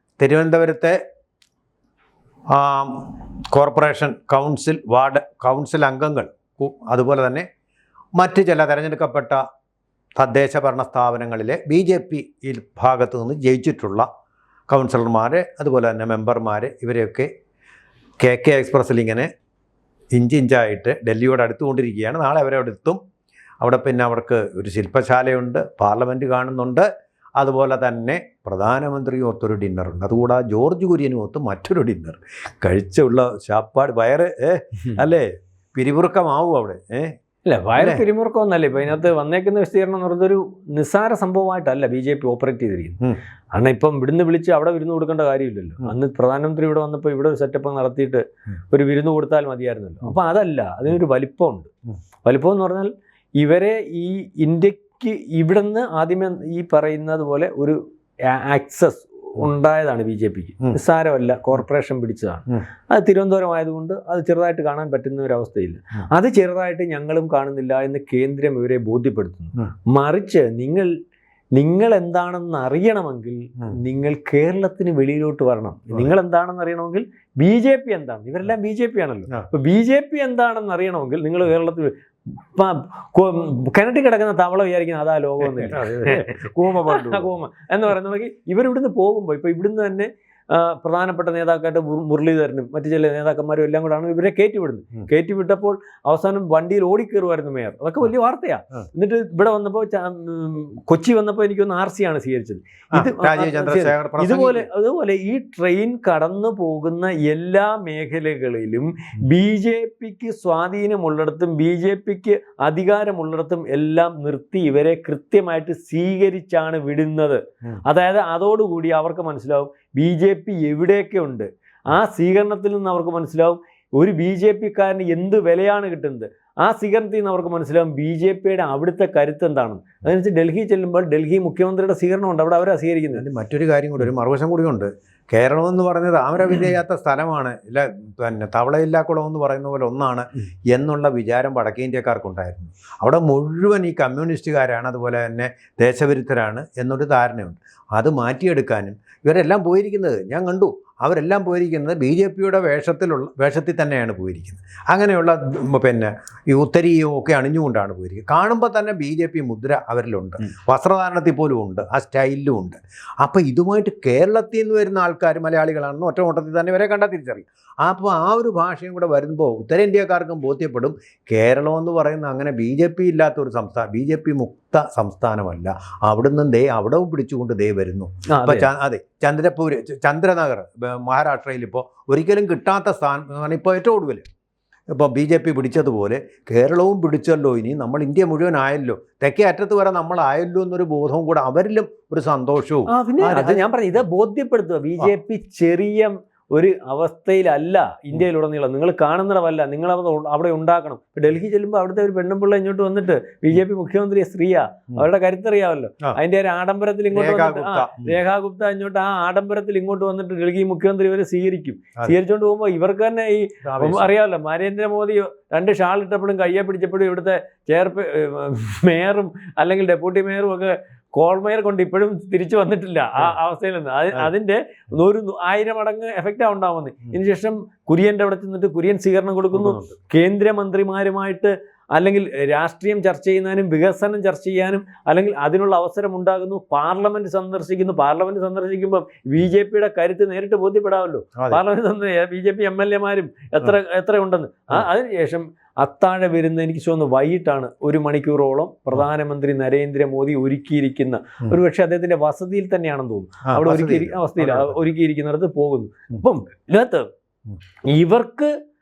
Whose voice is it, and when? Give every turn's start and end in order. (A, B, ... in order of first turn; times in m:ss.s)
0:00.2-0:01.0 A
0:02.5-0:07.5 A
0:08.2-0:09.4 A
0:10.2-0:14.1 A
0:14.7-0:17.3 A
0:18.2-0:19.3 A
0:20.1-0:23.0 A
0:23.6-0:37.2 A
0:37.4-0:43.0 B
0:37.8-0:38.0 A
0:43.5-0:51.7 B
0:52.2-1:10.9 B
1:11.5-1:21.9 B
1:15.9-1:16.2 A
1:22.6-2:13.2 B
1:25.4-1:27.3 A
1:42.9-1:44.7 A
2:13.1-3:04.3 A
2:58.3-2:58.7 B
3:04.9-3:13.6 A
3:12.9-4:17.1 B
3:27.1-3:28.2 A
3:33.6-3:34.1 A
3:49.5-3:49.9 A
4:01.4-4:01.6 A
4:13.5-4:14.9 A
4:17.9-4:18.5 B